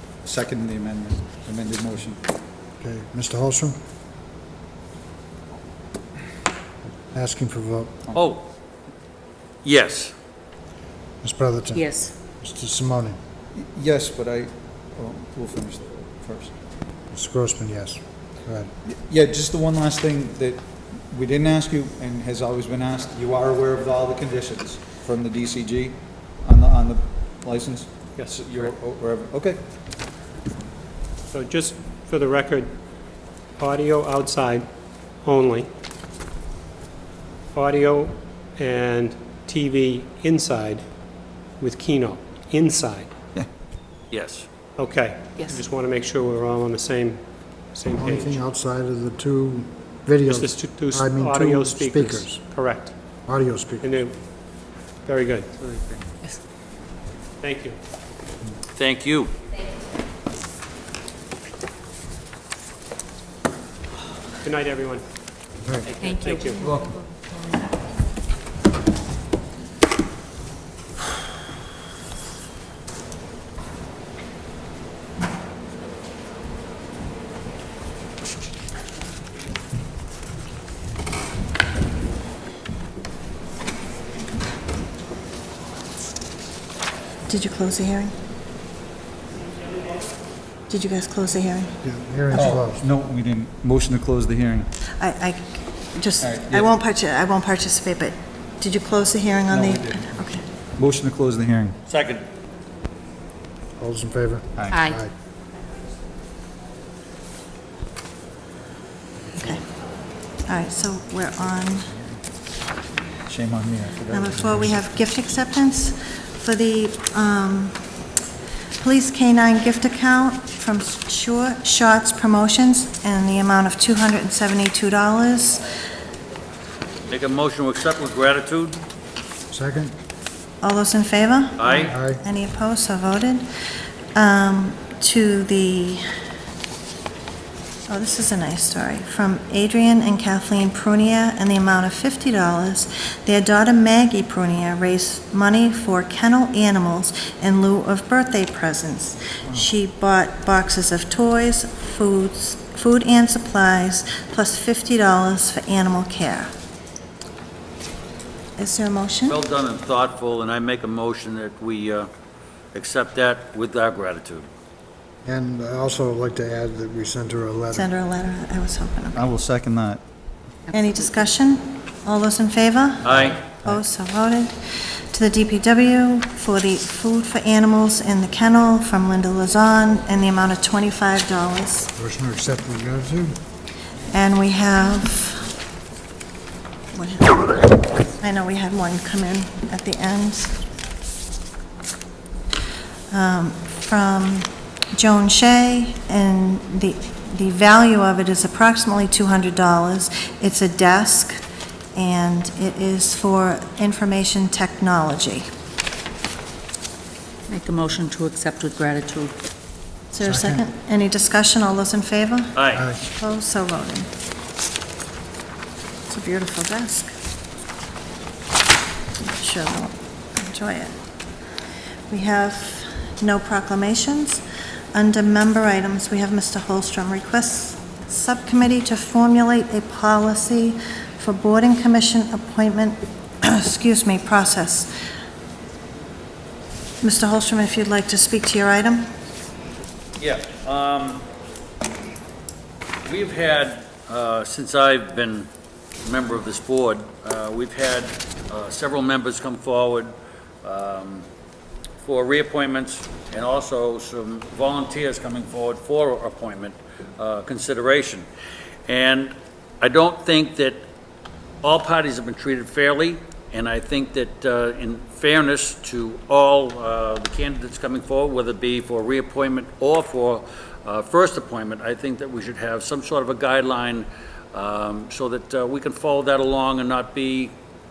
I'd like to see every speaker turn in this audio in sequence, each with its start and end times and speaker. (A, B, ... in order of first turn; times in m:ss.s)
0:00.2-0:02.2 A
0:02.8-0:03.8 B
0:07.1-0:08.0 B
0:08.1-0:08.5 C
0:09.6-0:10.1 C
0:11.2-0:13.2 B
0:11.7-0:12.1 D
0:13.5-0:16.5 A
0:17.1-0:18.7 B
0:18.8-0:29.6 A
0:28.2-0:28.5 E
0:31.3-0:32.8 E
0:33.6-0:34.7 E
0:35.2-0:35.7 E
0:37.5-0:40.8 E
0:41.6-0:43.1 E
0:44.1-0:44.5 C
0:44.8-0:48.4 E
0:48.0-0:52.4 B
0:50.3-0:52.9 E
0:53.3-0:53.9 B
0:53.8-0:54.2 E
0:55.0-0:55.5 E
0:55.6-0:56.0 A
0:57.4-0:57.8 E
0:58.8-0:59.3 C
1:04.4-1:05.0 E
1:05.6-1:05.9 B
1:05.9-1:06.8 E
1:06.0-1:07.5 D
1:27.3-1:28.1 F
1:30.7-1:31.8 F
1:31.8-1:32.8 B
1:32.3-1:32.6 F
1:32.3-1:34.7 A
1:35.0-1:40.4 F
1:36.2-1:36.7 A
1:39.5-1:40.2 A
1:40.8-1:41.8 A
1:41.9-1:42.2 C
1:43.8-1:45.1 B
1:44.6-1:44.9 A
1:44.7-1:45.0 D
1:49.3-1:49.6 F
1:50.5-1:51.9 F
1:53.3-1:54.9 A
1:54.1-1:57.8 F
1:58.8-2:05.6 F
2:07.1-2:08.8 C
2:09.5-2:09.9 B
2:10.6-2:13.5 F
2:11.6-2:12.0 C
2:11.8-2:12.2 B
2:14.2-2:16.0 F
2:17.9-2:36.5 F
2:38.6-2:39.4 F
2:39.3-2:42.1 C
2:42.7-2:44.5 C
2:45.2-2:47.9 B
2:47.7-2:49.2 F
2:49.2-2:50.0 A
2:50.7-2:54.6 F
2:53.0-2:53.4 C
2:53.2-2:53.8 A
2:55.1-3:01.9 F
3:02.0-3:03.4 B
3:04.1-3:05.5 F
3:06.9-3:10.6 F
3:13.1-3:21.4 F
3:21.9-3:25.4 F
3:27.5-3:29.3 D
3:30.1-3:34.1 F
3:30.2-3:30.6 B
3:32.6-3:32.9 C
3:32.8-3:33.0 B
3:36.1-3:37.1 F
3:39.2-3:40.9 F
3:42.1-3:44.4 F
3:44.9-3:54.9 F
3:57.0-3:59.0 F
4:00.2-4:01.2 C
4:03.1-4:05.5 C
4:06.0-4:10.1 C
4:10.6-4:11.2 C
4:12.0-4:18.3 C
4:18.9-4:20.8 C
4:21.6-4:37.5 C